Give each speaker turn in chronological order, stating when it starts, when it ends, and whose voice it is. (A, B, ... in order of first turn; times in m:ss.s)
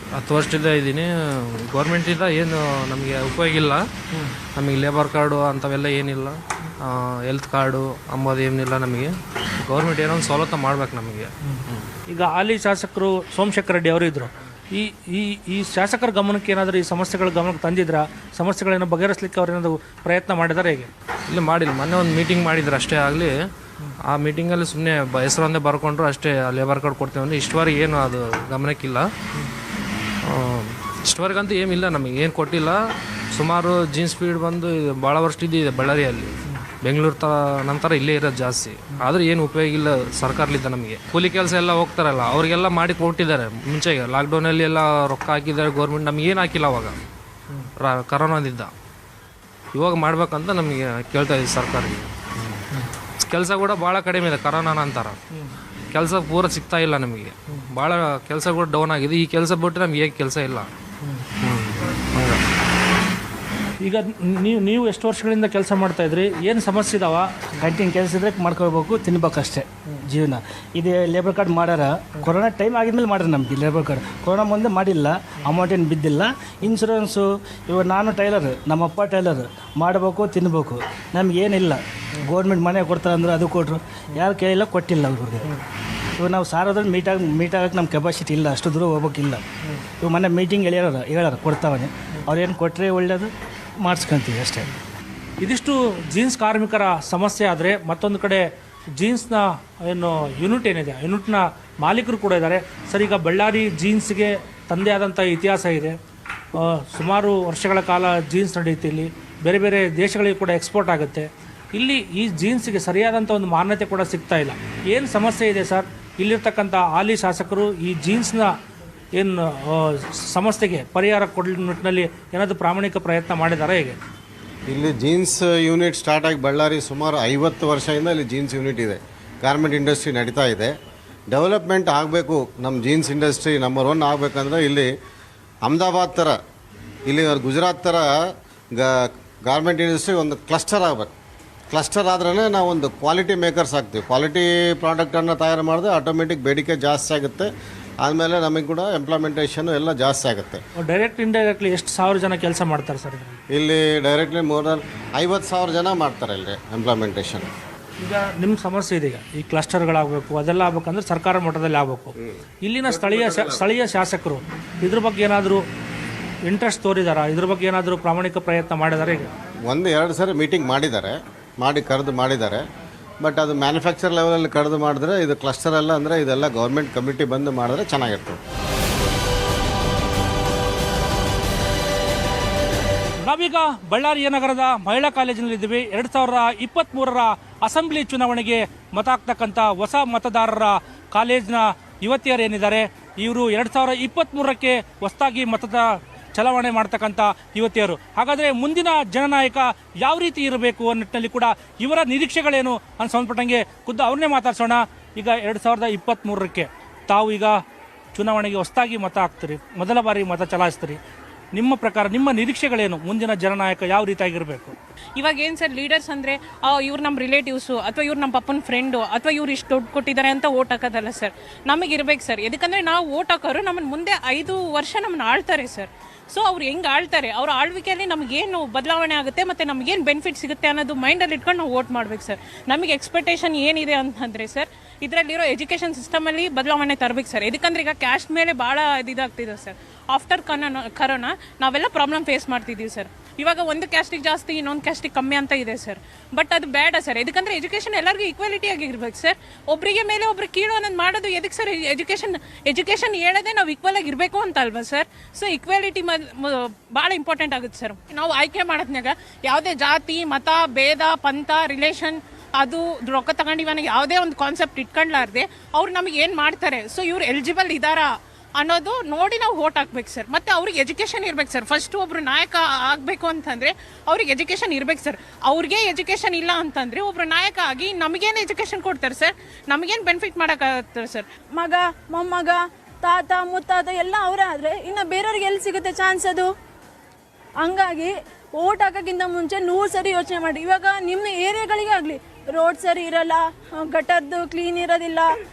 0:00.1-0:03.8 A
0:04.6-0:11.9 A
0:12.1-0:20.9 B
0:21.3-0:23.3 A
0:24.1-0:29.1 A
0:30.2-0:32.8 A
0:33.3-0:47.0 A
0:47.8-0:48.7 A
0:49.7-0:55.2 A
0:55.9-1:00.7 A
1:01.4-1:02.4 A
1:03.8-1:07.3 B
1:07.6-1:25.6 C
1:26.2-1:34.7 C
1:35.4-1:46.0 B
1:46.5-1:58.5 B
1:59.1-2:04.0 B
2:04.7-2:10.7 D
2:11.3-2:14.9 D
2:15.6-2:16.4 D
2:17.1-2:18.1 D
2:18.8-2:21.1 D
2:21.7-2:27.5 D
2:28.0-2:30.6 D
2:30.8-2:33.4 B
2:33.5-2:37.5 D
2:38.0-2:45.6 B
2:42.9-2:43.6 D
2:46.4-2:49.3 B
2:49.7-2:52.6 D
2:53.2-2:58.4 D
3:03.2-3:27.6 B
3:28.1-3:31.0 B
3:31.5-3:34.8 B
3:35.2-4:41.2 E
4:41.6-4:46.5 F
4:47.6-4:55.3 F